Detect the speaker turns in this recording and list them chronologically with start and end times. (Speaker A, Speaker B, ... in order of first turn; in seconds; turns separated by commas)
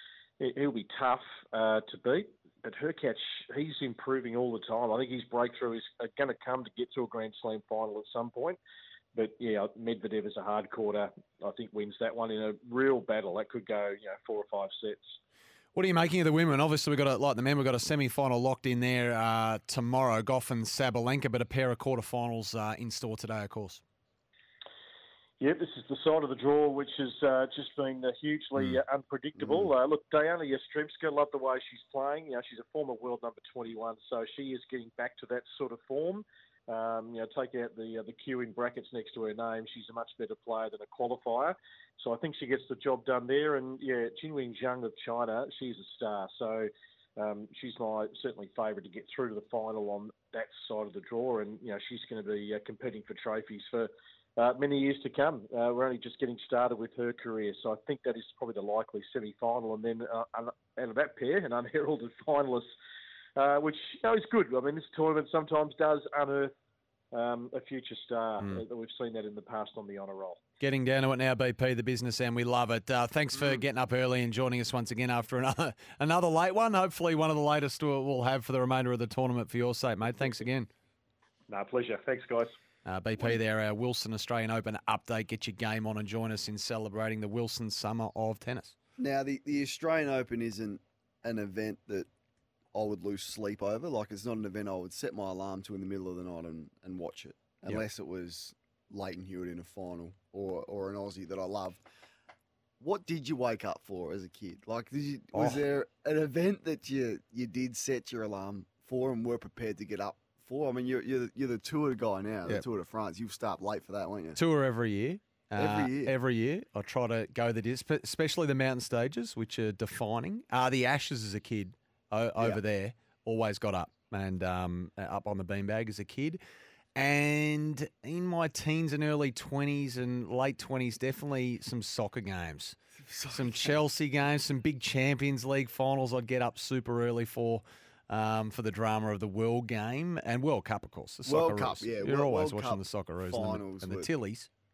Speaker A: 0.4-8.6, Speaker A: 9.2-15.2, Speaker B: 15.7-23.8, Speaker A: 25.4-62.7, Speaker C: 29.4-29.7, Speaker A: 63.4-66.5, Speaker A: 67.1-70.4, Speaker B: 70.6-80.7, Speaker A: 81.5-82.5, Speaker B: 82.8-88.7, Speaker C: 89.0-92.1, Speaker C: 92.7-101.8, Speaker C: 102.8-114.4, Speaker B: 105.3-105.6, Speaker B: 114.4-126.4, Speaker C: 115.6-116.1, Speaker B: 127.0-132.8, Speaker C: 133.0-133.7, Speaker B: 133.3-144.5, Speaker C: 141.2-144.1